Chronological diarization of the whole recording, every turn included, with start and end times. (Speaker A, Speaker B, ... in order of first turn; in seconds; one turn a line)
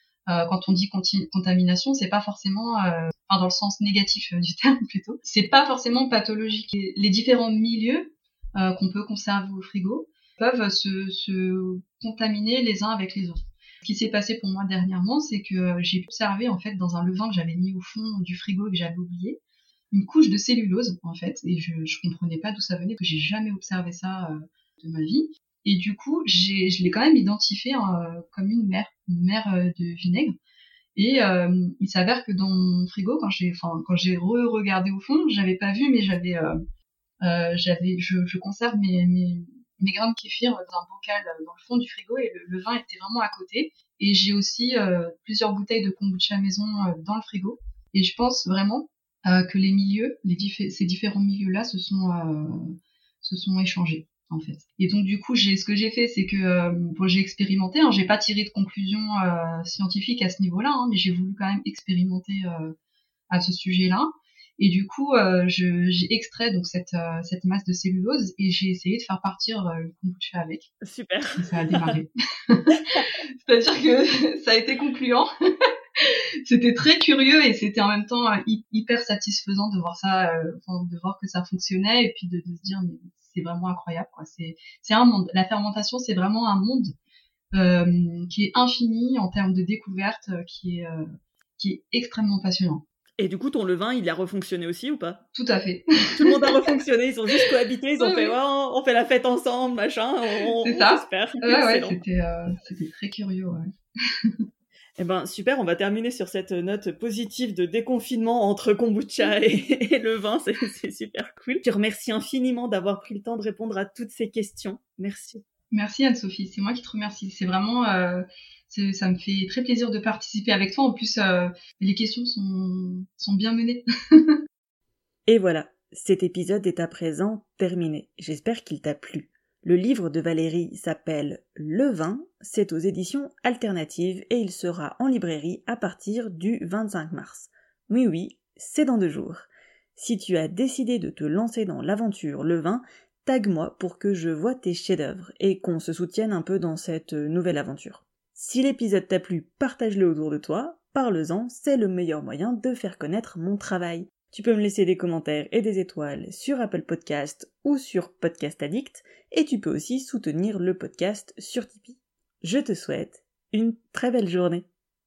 Speaker A: 0.3-19.4
Speaker A: 19.9-30.3
Speaker A: 30.9-36.6
Speaker A: 37.2-62.7
Speaker A: 63.3-70.7
Speaker B: 70.8-71.9
Speaker A: 71.3-75.3
Speaker A: 76.0-86.9
Speaker A: 87.5-91.0
Speaker A: 91.6-92.8
Speaker B: 93.2-95.2
Speaker A: 95.3-96.6
Speaker B: 96.2-102.0
Speaker A: 98.0-98.3
Speaker A: 100.6-104.4
Speaker B: 105.0-115.4
Speaker A: 115.7-124.3
Speaker B: 125.3-164.7